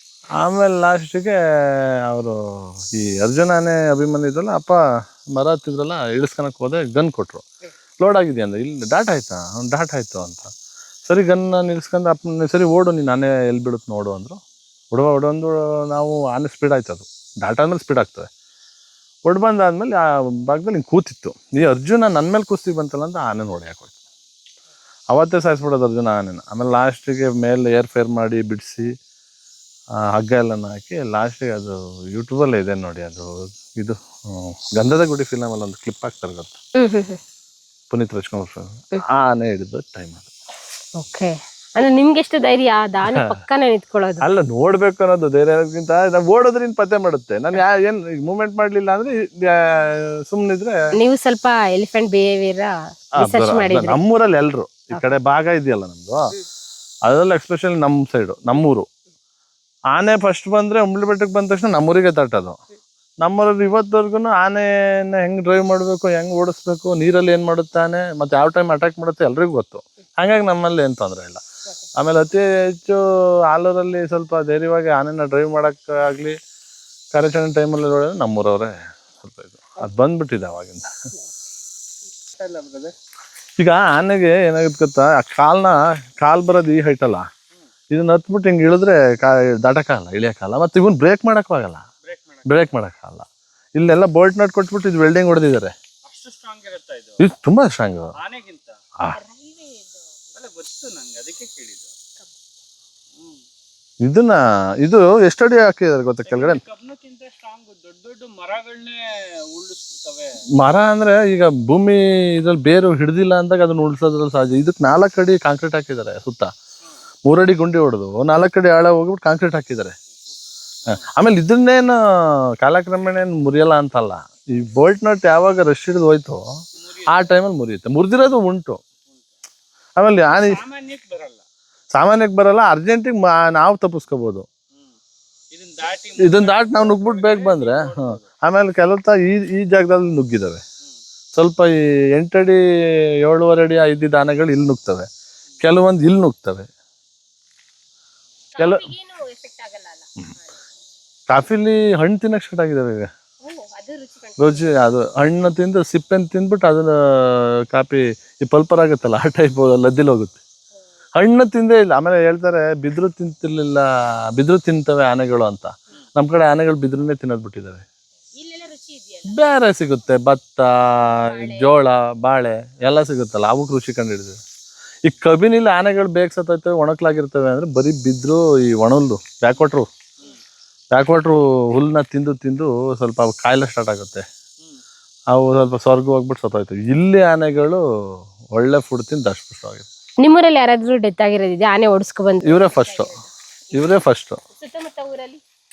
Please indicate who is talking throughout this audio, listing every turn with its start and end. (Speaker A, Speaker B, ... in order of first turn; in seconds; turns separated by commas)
Speaker A: 0.4-7.4, Speaker A: 8.0-10.5, Speaker A: 11.1-14.4, Speaker A: 14.9-18.3, Speaker A: 19.2-23.9, Speaker A: 25.1-28.9, Speaker A: 30.0-36.6, Speaker B: 36.7-37.2, Speaker A: 37.9-40.3, Speaker B: 41.0-44.2, Speaker A: 43.1-43.4, Speaker A: 44.2-50.9, Speaker B: 51.0-54.0, Speaker A: 53.2-56.3, Speaker A: 57.0-58.9, Speaker A: 59.9-62.6, Speaker A: 63.2-71.4, Speaker A: 72.0-76.3, Speaker A: 77.1-81.1, Speaker C: 82.3-82.9, Speaker A: 83.6-87.3, Speaker A: 87.9-91.8, Speaker C: 92.0-92.7, Speaker A: 92.5-95.7, Speaker C: 96.0-97.2, Speaker A: 97.2-98.1, Speaker C: 98.2-98.8, Speaker B: 99.1-99.8, Speaker C: 100.3-101.9, Speaker C: 103.2-103.4, Speaker A: 104.0-106.6, Speaker C: 106.2-110.4, Speaker A: 110.6-116.5, Speaker A: 117.2-119.9, Speaker A: 120.9-122.0, Speaker A: 122.6-126.4, Speaker C: 126.8-127.2, Speaker A: 127.1-128.8, Speaker A: 130.0-130.6, Speaker C: 130.3-131.4, Speaker A: 131.9-134.5, Speaker C: 135.5-138.3, Speaker A: 136.2-140.6, Speaker A: 141.3-142.6, Speaker A: 143.2-145.1, Speaker A: 145.6-146.7, Speaker B: 148.5-150.1, Speaker A: 148.6-148.9, Speaker A: 151.3-153.1, Speaker B: 153.4-154.8, Speaker A: 154.4-160.4, Speaker A: 161.2-167.8, Speaker B: 168.3-169.4, Speaker A: 169.2-174.4, Speaker B: 171.2-171.8, Speaker A: 175.0-179.9, Speaker A: 180.9-184.2, Speaker A: 185.3-189.9, Speaker B: 190.2-193.2, Speaker A: 192.4-193.1, Speaker A: 193.7-194.4, Speaker B: 194.5-195.4